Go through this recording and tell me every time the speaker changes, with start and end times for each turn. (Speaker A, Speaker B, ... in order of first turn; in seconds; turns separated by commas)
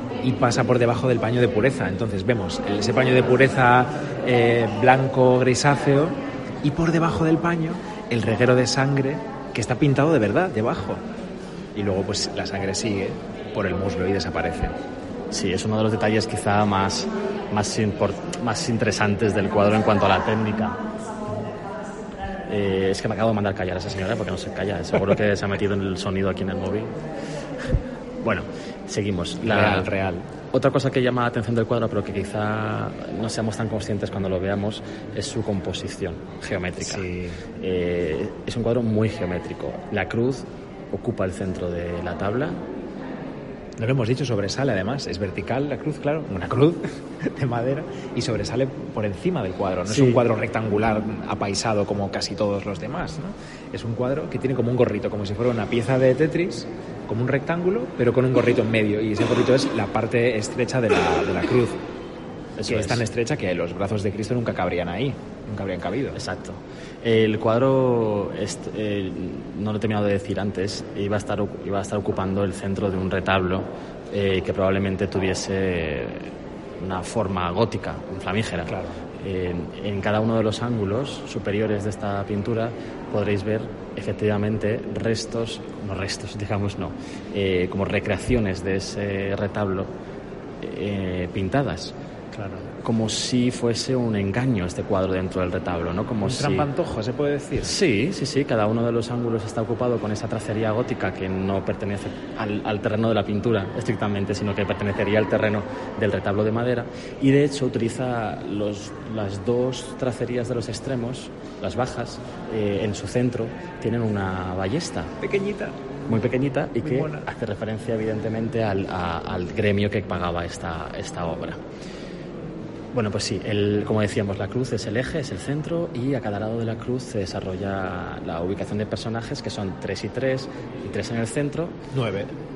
Speaker A: 0.2-11.0, Speaker A: 11.8-14.8, Speaker B: 15.3-20.8, Speaker B: 22.5-26.9, Speaker B: 28.2-29.9, Speaker A: 29.4-30.3, Speaker B: 30.5-42.6, Speaker A: 36.8-37.5, Speaker A: 43.8-61.8, Speaker B: 49.9-50.2, Speaker B: 62.6-63.0, Speaker A: 62.7-66.2, Speaker B: 66.2-89.9, Speaker A: 78.7-79.0, Speaker B: 90.6-92.0, Speaker A: 92.3-92.7, Speaker B: 92.8-96.7, Speaker A: 96.2-97.8, Speaker B: 97.6-115.1, Speaker A: 115.2-115.8, Speaker B: 116.1-121.6, Speaker A: 116.8-117.3, Speaker B: 122.9-131.8, Speaker A: 131.9-132.3